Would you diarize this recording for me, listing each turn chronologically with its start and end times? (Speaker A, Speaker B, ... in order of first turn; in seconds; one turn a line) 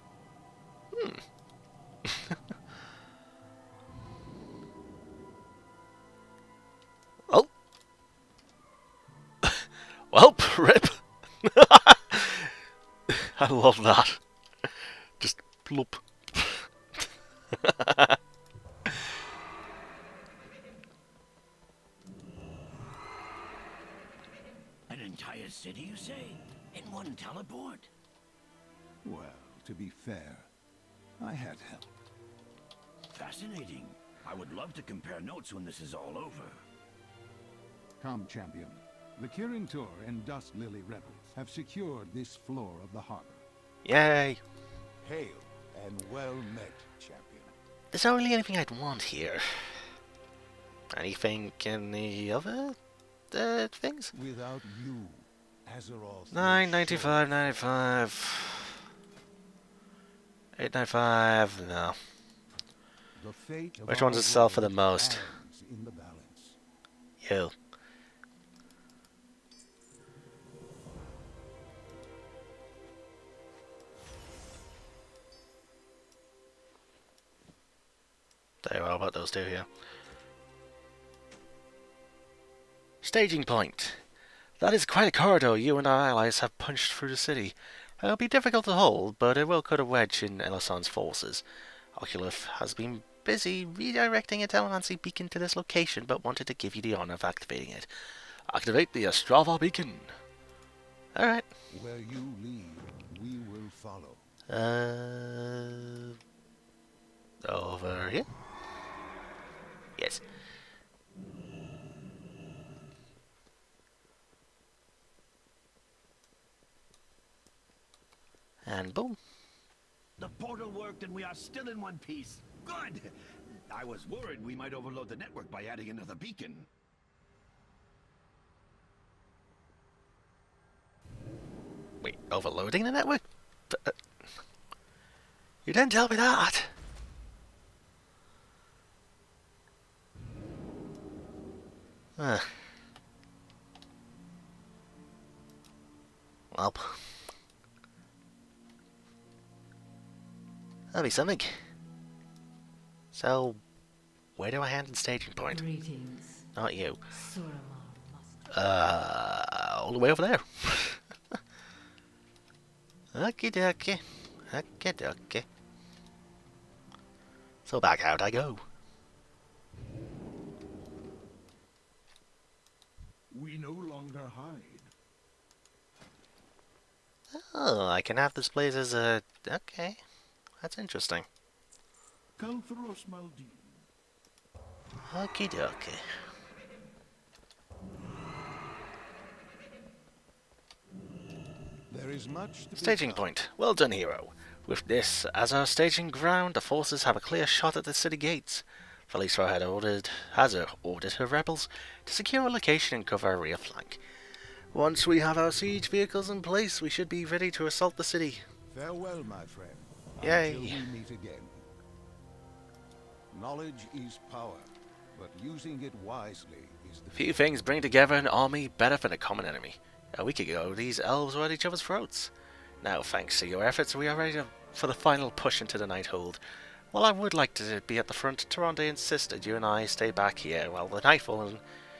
Speaker A: 0.9-1.2
Speaker A: 2.0-2.4
Speaker A: 9.4-12.5
Speaker A: 13.1-14.2
Speaker A: 15.2-16.6
Speaker A: 17.5-18.2
Speaker B: 24.9-27.9
Speaker C: 29.0-30.5
Speaker C: 31.2-31.9
Speaker B: 33.1-36.5
Speaker C: 38.0-43.4
Speaker A: 43.8-44.4
Speaker C: 45.0-47.5
Speaker A: 47.9-49.9
Speaker A: 50.9-52.8
Speaker A: 53.3-54.1
Speaker C: 54.1-57.5
Speaker A: 56.3-58.8
Speaker A: 60.6-62.0
Speaker C: 63.1-66.6
Speaker A: 63.9-65.4
Speaker A: 67.2-67.5
Speaker A: 78.6-79.7
Speaker A: 83.0-84.0
Speaker A: 84.6-91.4
Speaker A: 91.9-97.9
Speaker A: 98.5-100.1
Speaker A: 101.1-101.5
Speaker C: 101.7-104.3
Speaker A: 104.5-106.1
Speaker A: 107.4-108.3
Speaker A: 110.0-110.2
Speaker A: 118.7-119.2
Speaker B: 120.2-123.0
Speaker B: 123.7-126.7
Speaker A: 132.0-133.9
Speaker A: 135.6-136.7
Speaker A: 142.2-142.5
Speaker A: 146.5-147.1
Speaker A: 150.9-151.6
Speaker A: 153.1-153.6
Speaker A: 154.3-155.6
Speaker D: 155.5-156.4
Speaker A: 156.5-157.0
Speaker D: 157.1-158.5
Speaker A: 158.5-161.0
Speaker A: 163.1-165.4
Speaker A: 167.6-168.6
Speaker C: 173.3-174.8
Speaker A: 177.3-180.0
Speaker A: 180.6-181.2
Speaker A: 185.1-186.0
Speaker C: 191.9-193.3
Speaker A: 192.7-204.0
Speaker A: 204.7-208.4
Speaker C: 208.7-211.6
Speaker A: 210.2-210.8
Speaker C: 213.3-217.3
Speaker A: 217.1-226.4
Speaker A: 226.9-231.6